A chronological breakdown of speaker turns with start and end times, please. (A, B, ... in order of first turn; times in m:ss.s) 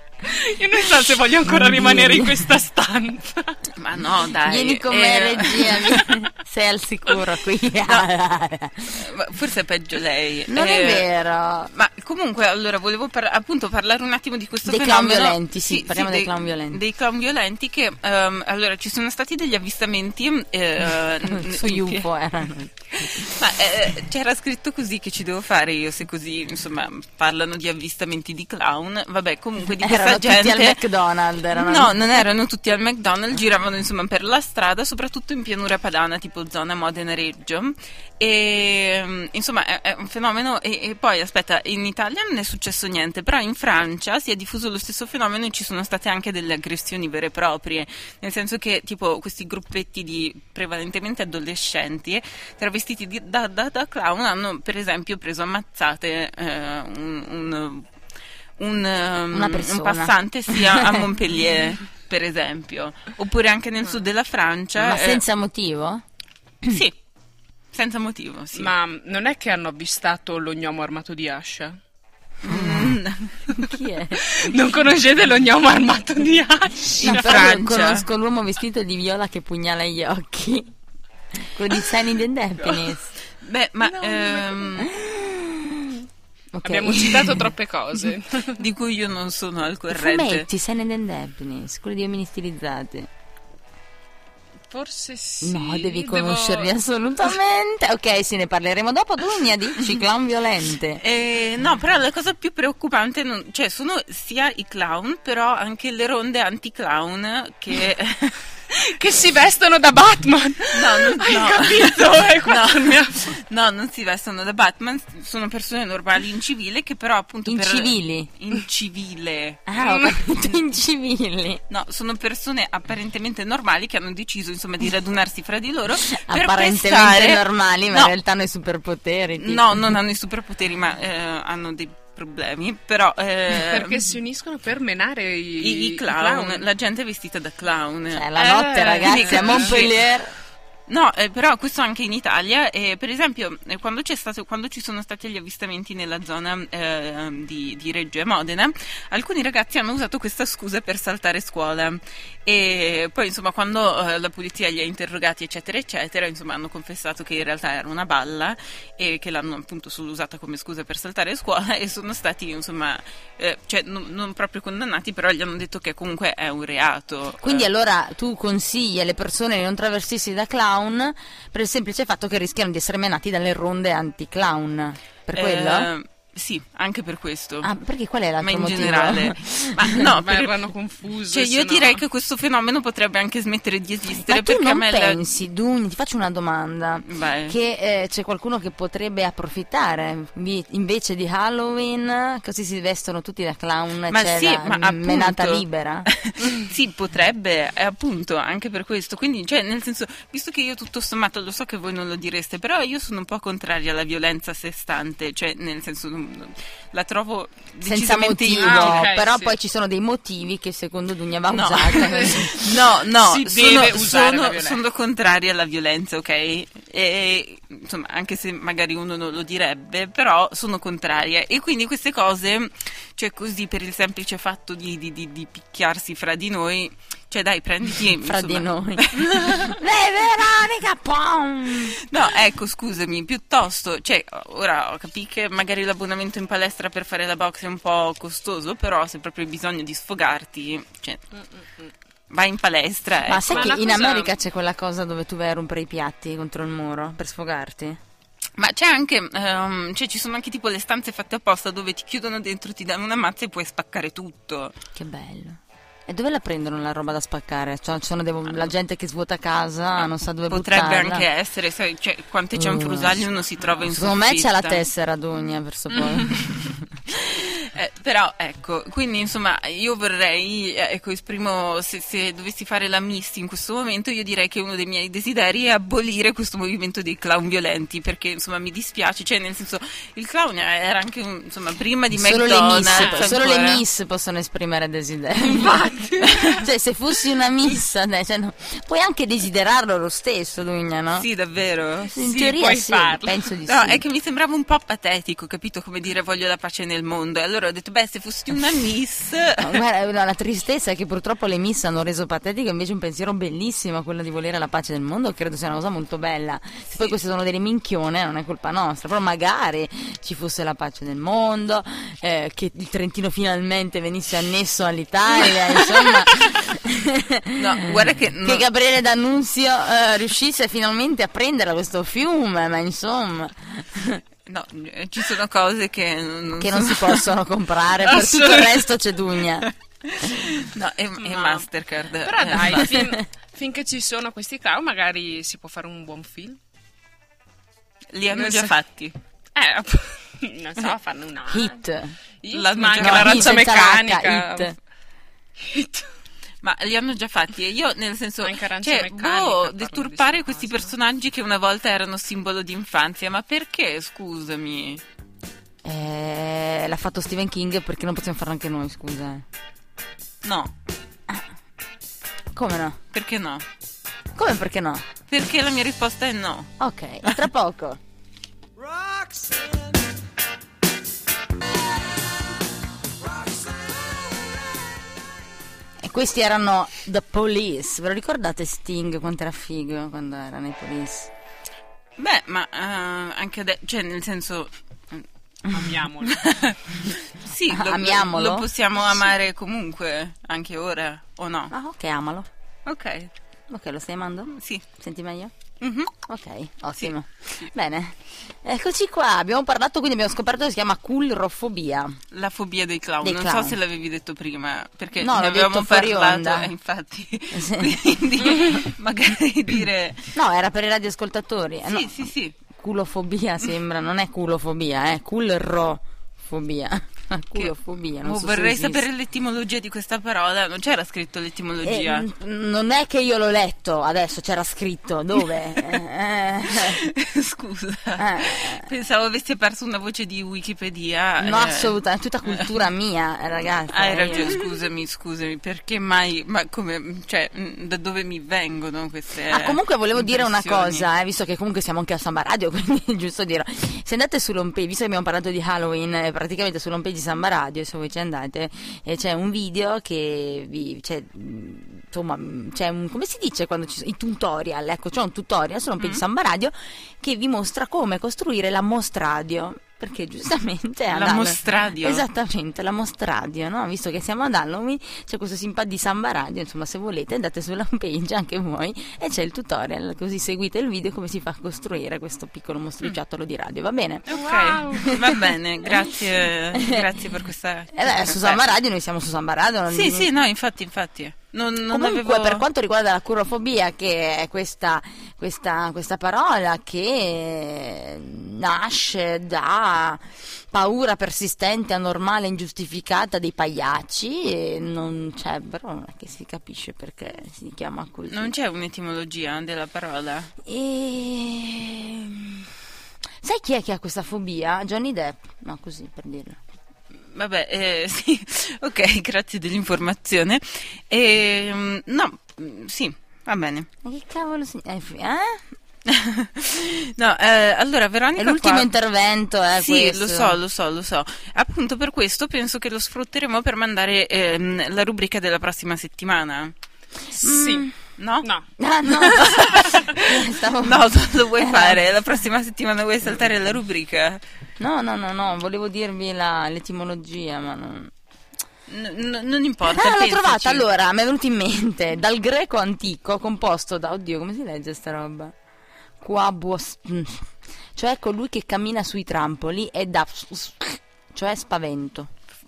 0:00.2-0:03.6 A
0:01.4-0:02.5 B
0:03.8-0:06.1 C
0:04.4-0:09.0 B
0:08.9-0:11.1 C
0:10.5-0:11.7 B
0:11.7-0:22.1 C
0:14.6-0:16.8 B
0:21.3-0:23.3 B
0:23.0-0:30.8 C
0:29.8-0:32.0 B
0:31.5-0:57.9 C
0:58.6-1:05.2 C
0:59.3-1:01.0 B
1:04.8-1:06.0 B
1:06.7-1:07.0 C
1:07.7-1:08.7 C
1:08.6-1:11.8 A
1:12.4-1:13.5 C
1:12.5-1:13.0 B
1:13.5-1:14.4 B
1:14.2-1:17.6 A
1:17.0-1:18.1 C
1:17.0-1:20.7 B
1:21.3-1:23.1 B
1:22.6-1:24.9 C
1:23.8-1:24.7 A
1:24.8-1:27.5 B
1:26.6-1:28.6 A
1:28.6-1:30.5 C
1:29.9-1:33.1 B
1:34.7-1:36.8 A
1:35.4-1:41.0 B
1:41.0-1:48.5 C
1:48.7-1:53.4 A
1:50.7-1:59.7 C
1:57.5-1:58.3 B
1:59.7-2:01.6 B
1:59.8-2:00.1 A
2:01.7-2:08.1 C
2:06.1-2:09.9 B
2:09.4-2:14.1 C
2:13.5-2:16.6 A
2:15.6-2:20.0 C
2:18.1-2:20.3 B
2:18.4-2:19.8 A
2:20.9-2:47.7 C
2:47.4-2:55.9 B
2:55.3-2:57.7 C
2:57.6-3:00.1 B
2:58.4-3:00.5 C
3:00.0-3:02.0 A
3:01.3-3:05.2 C
3:04.1-3:16.1 B
3:07.0-3:07.6 C
3:14.1-3:29.1 C
3:27.8-3:32.6 B
3:28.6-3:29.6 A
3:31.5-3:49.8 C
3:32.0-3:34.8 A
3:48.2-3:52.0 B
3:51.8-4:01.2 C
4:02.3-4:03.8 C
4:03.3-4:08.0 B
4:03.5-4:04.4 A
4:08.6-4:14.8 C
4:15.0-4:21.3 B
4:20.5-4:24.8 C
4:22.5-4:23.2 B
4:23.8-4:26.9 B
4:27.1-4:43.8 C
4:42.1-4:45.8 B
4:42.9-4:43.3 A
4:45.4-4:46.7 A
4:46.2-4:46.6 C
4:46.5-4:51.3 B
4:51.2-4:52.2 C
4:52.1-4:54.0 B
4:52.2-4:53.4 A
4:53.7-4:59.8 C
4:59.6-5:24.2 B
5:17.6-5:18.7 C
5:24.5-5:27.3 C
5:26.6-5:29.7 B
5:28.0-5:28.9 A
5:30.0-5:33.1 C
5:31.2-5:31.7 A
5:32.2-5:36.6 A
5:38.1-5:39.2 C
5:38.3-5:38.7 A
5:39.6-5:41.8 A
5:41.5-5:42.2 B
5:42.4-5:44.7 A
5:42.5-5:43.7 C
5:43.0-5:44.8 B
5:45.6-5:46.1 A
5:46.6-5:55.0 C
5:48.4-5:50.9 A
5:55.8-5:59.4 B
6:00.4-6:00.7 C
6:02.5-6:03.0 B
6:03.1-6:03.6 C
6:04.4-6:05.1 B
6:05.3-6:06.7 C
6:06.8-6:08.0 B
6:16.0-6:21.3 B
6:22.2-6:25.3 C
6:25.7-6:26.5 A
6:26.2-6:31.7 C
6:27.7-6:28.7 B
6:31.7-6:32.5 B
6:32.8-6:33.3 C
6:33.7-6:35.5 B
6:34.5-6:34.9 C
6:35.8-6:36.1 C
6:36.2-6:42.2 B
6:42.3-6:50.3 C
6:43.2-6:43.8 B
6:45.2-6:46.7 B
6:47.5-6:48.0 B
6:50.3-6:59.0 B
6:51.9-6:52.6 C
6:57.6-7:02.3 C
7:01.8-7:07.0 B
7:06.7-7:12.0 C
7:08.2-7:08.9 B
7:11.4-7:14.6 B
7:13.9-7:21.1 C
7:19.5-7:54.3 B
7:36.0-7:36.2 C
7:41.1-7:42.2 C
7:54.3-7:58.6 C
7:54.3-7:55.2 A
7:55.0-7:55.4 B
7:56.7-7:57.1 B
7:57.9-8:00.3 B
7:59.9-8:02.6 C
8:01.9-8:18.5 B
8:18.3-8:20.5 C
8:20.6-8:22.7 B
8:23.4-8:26.6 B
8:27.1-8:33.9 C
8:34.0-8:35.6 B
8:36.1-8:38.9 C
8:38.4-8:40.6 B
8:39.8-8:46.7 C
8:47.4-8:48.0 B
8:47.4-8:47.9 A
8:48.2-8:48.5 C
8:48.4-8:49.9 A
8:48.8-8:51.0 B
8:49.2-8:54.4 C
8:51.6-8:52.0 B
8:54.8-8:58.1 B
8:58.9-9:00.8 C
8:59.9-9:05.5 B
9:06.2-9:12.3 B